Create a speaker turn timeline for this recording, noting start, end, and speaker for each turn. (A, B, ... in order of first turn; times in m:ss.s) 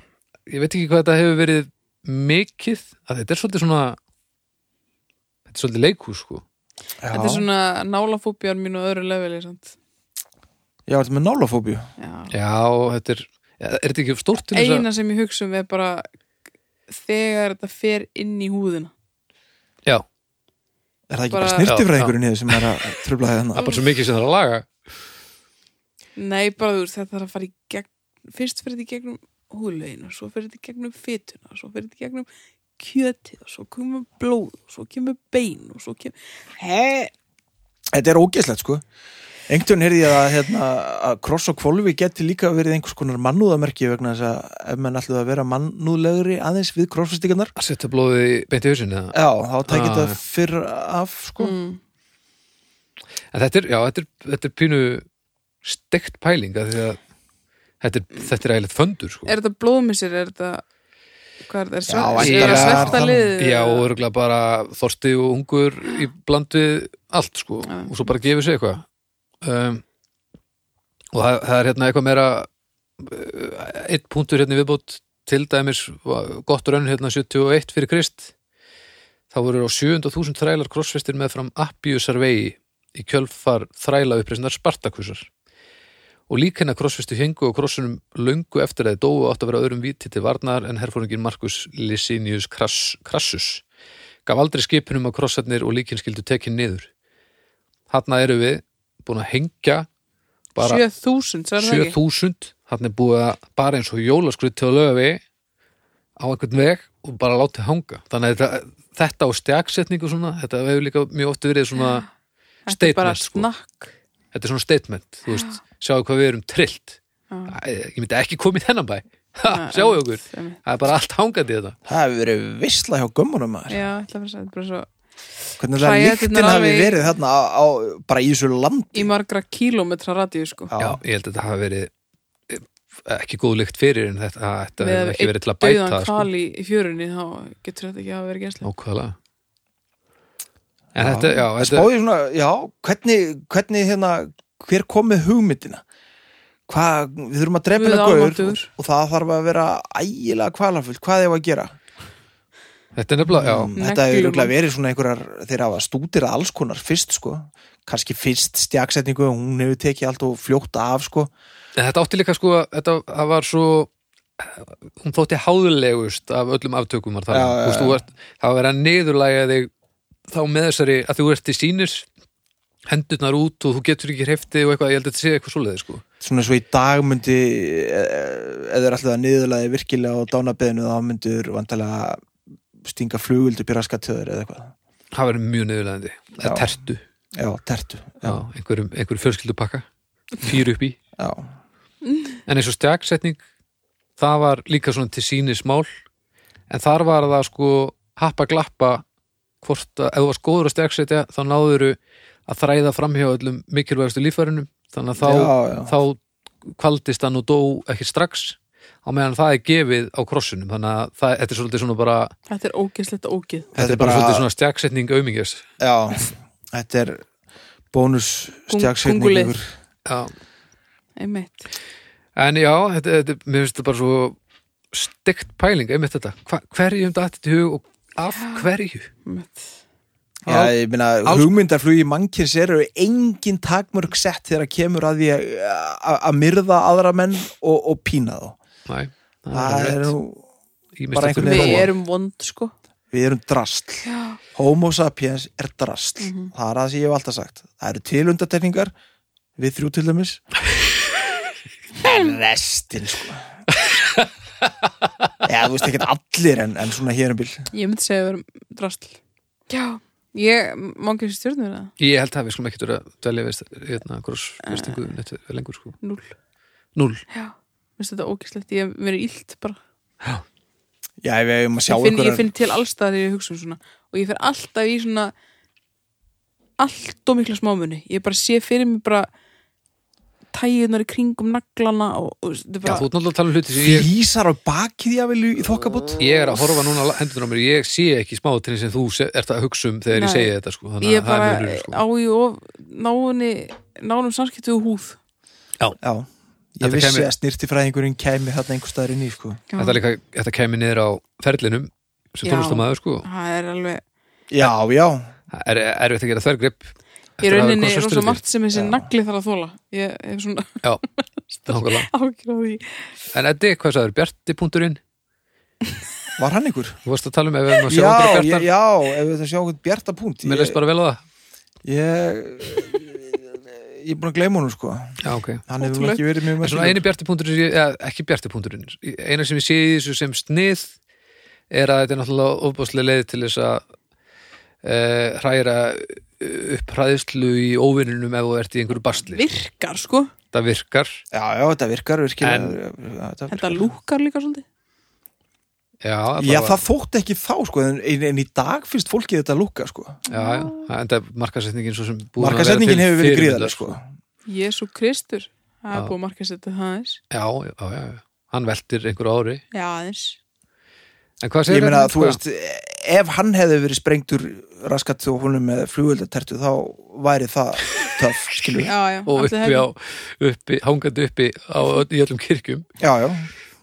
0:00.5-0:04.0 A
0:05.5-0:06.4 A
0:07.0-0:07.4 B
0:07.1-0:09.7 C
0:10.9-0:11.9 B
0:12.0-0:12.3 C
0:12.3-0:14.8 A
0:14.5-0:16.1 C
0:16.9-0:18.9 C
0:21.1-0:23.7 B
0:21.3-0:21.7 C
0:21.6-0:22.6 A
0:23.5-0:24.7 A
0:26.2-0:32.3 C
0:32.8-0:37.1 C
0:37.9-0:38.8 B
0:39.5-0:47.5 B
0:47.6-0:50.2 A
0:49.1-0:51.5 B
0:51.4-0:51.8 C
0:53.3-0:55.0 A
0:55.6-0:57.0 A
0:57.8-0:59.3 A
0:59.2-1:00.6 C
1:01.4-1:03.9 C
1:01.9-1:03.3 B
1:02.2-1:08.8 A
1:09.4-1:09.8 A
1:11.1-1:12.5 A
1:13.0-1:18.3 A
1:19.3-1:25.3 A
1:26.3-1:33.6 A
1:34.2-1:36.9 A
1:37.9-1:39.9 A
1:40.5-1:40.8 A
1:40.6-1:42.0 C
1:41.6-1:45.2 A
1:46.2-1:52.1 A
1:52.7-1:53.9 C
1:52.7-1:53.5 A
1:54.3-2:01.8 A
1:57.3-1:57.5 C
1:59.5-2:00.6 C
2:01.9-2:03.8 B
2:03.7-2:04.9 C
2:05.6-2:09.1 B
2:05.8-2:07.1 C
2:08.9-2:10.7 C
2:10.7-2:11.0 B
2:10.8-2:11.9 A
2:12.5-2:16.3 A
2:14.8-2:18.6 C
2:18.6-2:19.2 A
2:20.9-2:21.9 A
2:20.9-2:25.8 B
2:26.7-2:31.8 B
2:27.7-2:28.7 C
2:32.9-2:33.7 A
2:33.3-2:41.3 B
2:33.8-2:34.5 C
2:41.8-2:49.7 A
2:47.3-2:48.0 B
2:50.3-2:52.0 A
2:52.9-2:56.0 A
2:56.2-3:02.2 B
3:02.8-3:04.7 B
3:05.1-3:07.0 A
3:07.4-3:08.4 B
3:08.2-3:09.8 A
3:10.4-3:11.0 A
3:11.2-3:11.4 B
3:12.0-3:12.4 C
3:12.4-3:13.4 A
3:14.2-3:15.9 A
3:16.7-3:19.0 A
3:19.6-3:32.3 A
3:25.2-3:25.9 B
3:32.5-3:33.7 C
3:33.7-3:34.4 B
3:33.8-3:35.6 A
3:35.8-3:37.2 B
3:37.9-3:39.7 B
3:38.7-3:39.5 C
3:40.0-3:40.3 A
3:41.2-3:41.7 C
3:42.4-3:44.4 A
3:44.9-3:49.1 A
3:48.3-3:48.6 C
3:49.2-3:49.7 C
3:50.4-3:58.6 B
3:50.5-3:50.7 A
3:51.2-3:51.6 A
3:58.9-4:00.1 A
3:59.5-4:00.4 B
4:01.0-4:01.9 A
4:01.1-4:01.9 B
4:01.4-4:02.7 C
4:03.1-4:08.9 B
4:04.0-4:04.4 C
4:06.2-4:06.5 C
4:09.6-4:10.4 B
4:12.0-4:13.5 B
4:13.8-4:14.2 A
4:15.4-4:17.7 B
4:17.7-4:19.2 C
4:19.7-4:21.9 C
4:22.0-4:26.0 A
4:24.6-4:25.0 C
4:26.0-4:26.3 C
4:26.9-4:27.2 A
4:27.3-4:29.8 C
4:31.2-4:32.5 B
4:31.9-4:35.3 C
4:36.8-4:39.3 C
4:40.5-4:43.1 C
4:42.8-4:44.1 A
4:43.8-4:46.7 B
4:46.2-4:52.0 A
4:50.1-4:55.2 C
4:56.0-4:59.6 B
4:56.8-4:57.3 A
4:59.7-5:00.0 C
4:59.8-5:03.2 A
5:02.4-5:04.0 C
5:04.5-5:05.3 B
5:05.5-5:08.4 A
5:07.4-5:13.1 C
5:08.7-5:09.1 B
5:11.7-5:12.1 A
5:13.3-5:15.0 A
5:16.4-5:17.0 B
5:17.0-5:18.7 A
5:17.8-5:20.8 B
5:20.4-5:21.2 A
5:21.8-5:25.2 B
5:25.2-5:25.6 A
5:25.7-5:27.0 B
5:25.8-5:26.2 C
5:26.6-5:30.9 A
5:31.7-5:33.8 A
5:34.8-5:39.5 A
5:39.3-5:40.3 C
5:40.5-5:41.2 A
5:41.3-5:43.9 B
5:42.4-5:42.8 A
5:43.5-5:44.6 C
5:46.0-5:46.8 A
5:46.4-5:50.2 B
5:50.3-5:50.9 C
5:50.3-5:53.9 A
5:52.4-5:54.0 B
5:54.5-5:57.2 C
5:57.3-5:59.6 A
5:59.7-6:00.4 C
6:01.4-6:02.4 A
6:01.7-6:08.9 B
6:08.8-6:09.9 C
6:09.3-6:12.8 A
6:13.0-6:13.5 B